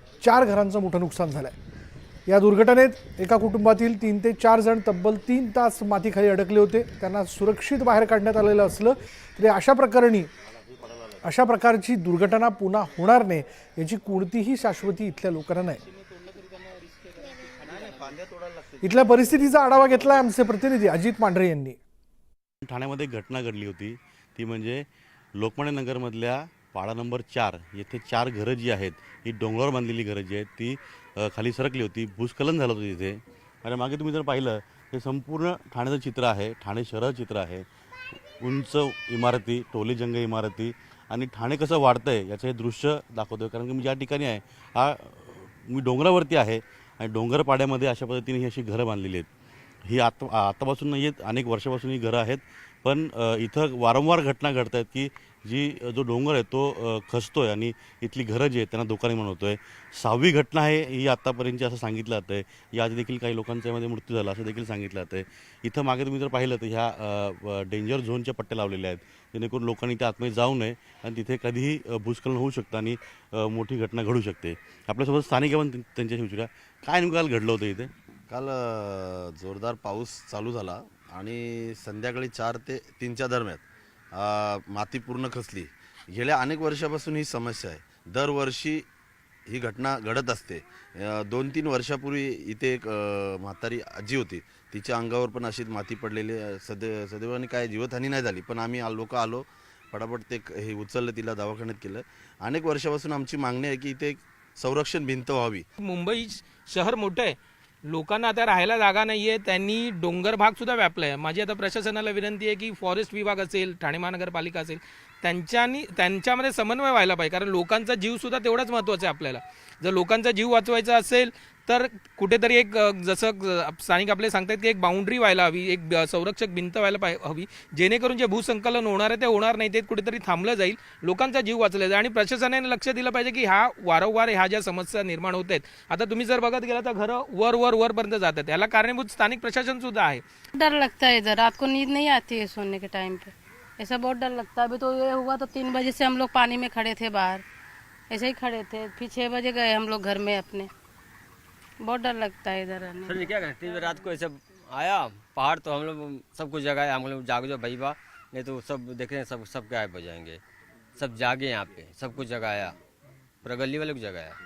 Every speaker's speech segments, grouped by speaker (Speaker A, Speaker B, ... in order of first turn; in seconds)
Speaker A: 0.2-1.6, 2.3-10.3, 11.2-15.8, 18.8-21.8
Speaker B: 17.9-18.3, 78.3-88.8, 89.5-105.7
Speaker C: 22.6-37.7, 38.4-49.3, 49.9-77.9
Speaker D: 105.8-107.4, 107.9-140.2
Speaker E: 140.5-147.4, 148.1-150.7, 151.8-153.2
Speaker F: 153.1-160.4, 161.0-162.8, 163.4-164.4